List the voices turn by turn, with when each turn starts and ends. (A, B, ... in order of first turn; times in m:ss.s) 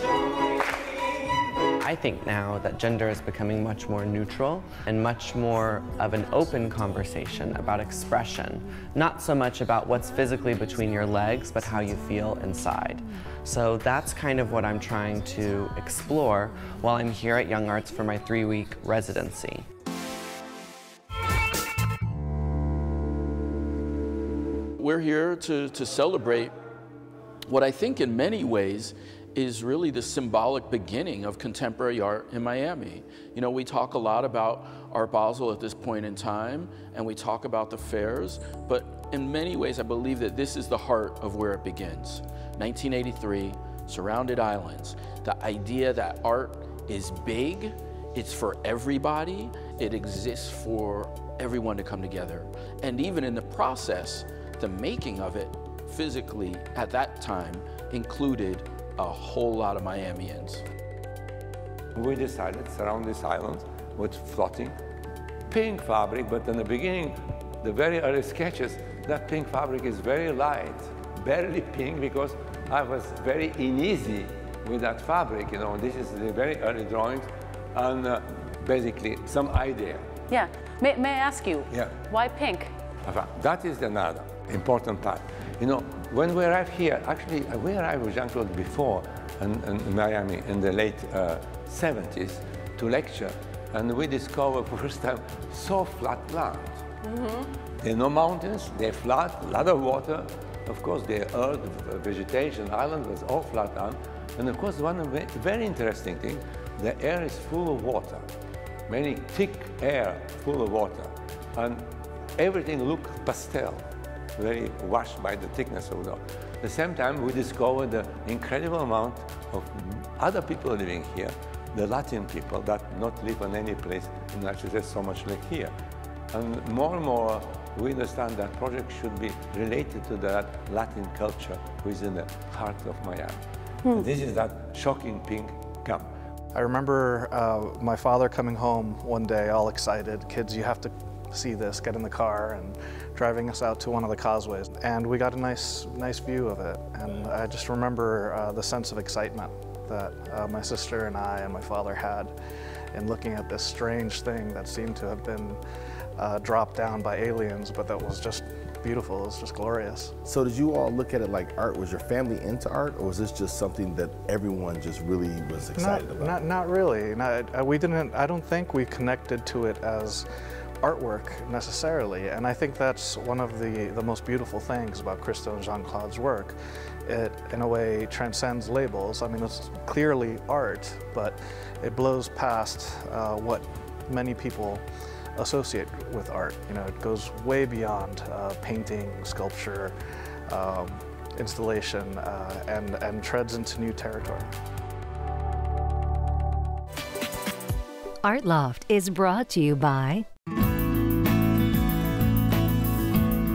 0:01.8-0:19.6 A
0:24.8-0:26.5 B
0:27.5-1:00.6 B
1:02.0-1:04.8 C
1:05.5-1:20.1 C
1:20.3-1:22.7 D
1:21.7-1:22.0 C
1:23.1-1:36.8 C
1:37.8-1:48.3 C
1:48.9-1:53.8 C
1:54.4-2:05.7 C
2:06.3-2:13.4 C
2:13.9-2:16.1 C
2:16.5-2:32.4 E
2:32.9-2:35.6 E
2:36.2-2:40.1 E
2:40.3-2:46.4 F
2:45.8-2:50.3 E
2:50.8-3:10.0 E
3:10.5-3:14.5 E
3:18.2-3:20.3 G